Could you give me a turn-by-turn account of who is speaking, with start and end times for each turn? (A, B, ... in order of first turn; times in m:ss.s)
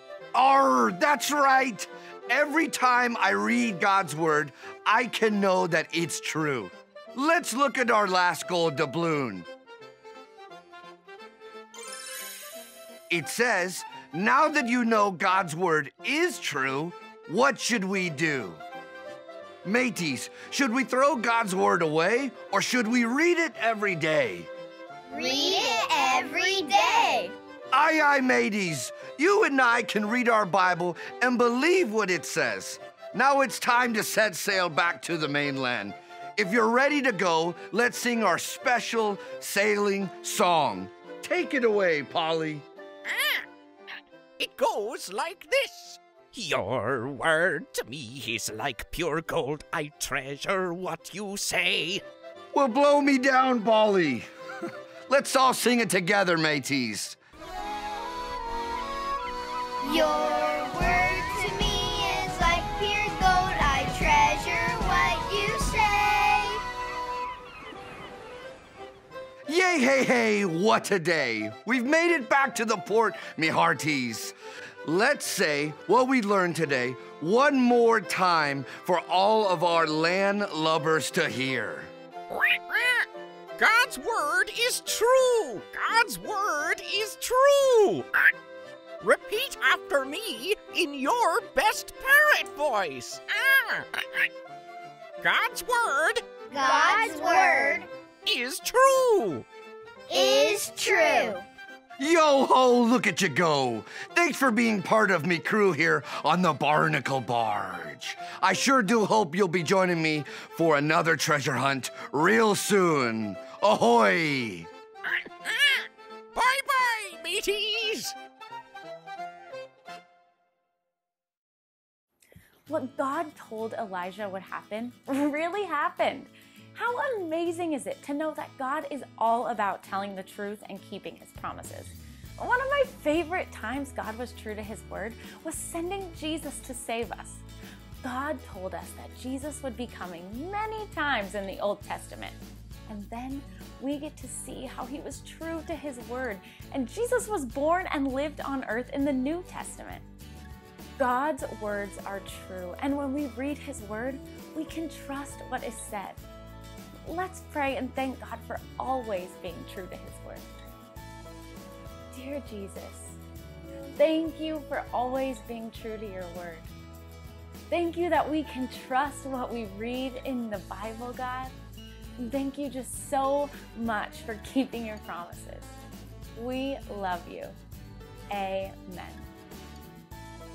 0:00.3-0:09.5 A
0:13.1-0:18.6 A
0:19.6-0:24.5 A
0:25.1-0:27.3 B
0:27.7-0:42.6 A
0:43.1-0:43.4 C
0:44.4-0:52.0 C
0:52.5-0:54.3 A
0:55.1-0:57.2 A
0:59.8-1:06.6 B
1:09.5-1:21.9 A
1:22.3-1:23.1 C
1:23.6-1:28.3 C
1:29.0-1:34.3 C
1:35.2-1:36.2 C
1:36.5-1:37.9 B
1:38.2-1:39.4 C
1:40.1-1:41.4 B
1:42.0-1:54.7 A
1:55.4-1:58.1 C
2:02.7-2:17.4 D
2:18.0-2:30.0 D
2:31.0-2:36.2 D
2:37.0-2:40.4 D
2:42.1-2:43.2 D
2:44.0-2:46.7 D
2:47.7-2:51.5 D
2:52.2-2:55.7 D
2:56.4-2:57.5 D
2:58.3-2:59.3 D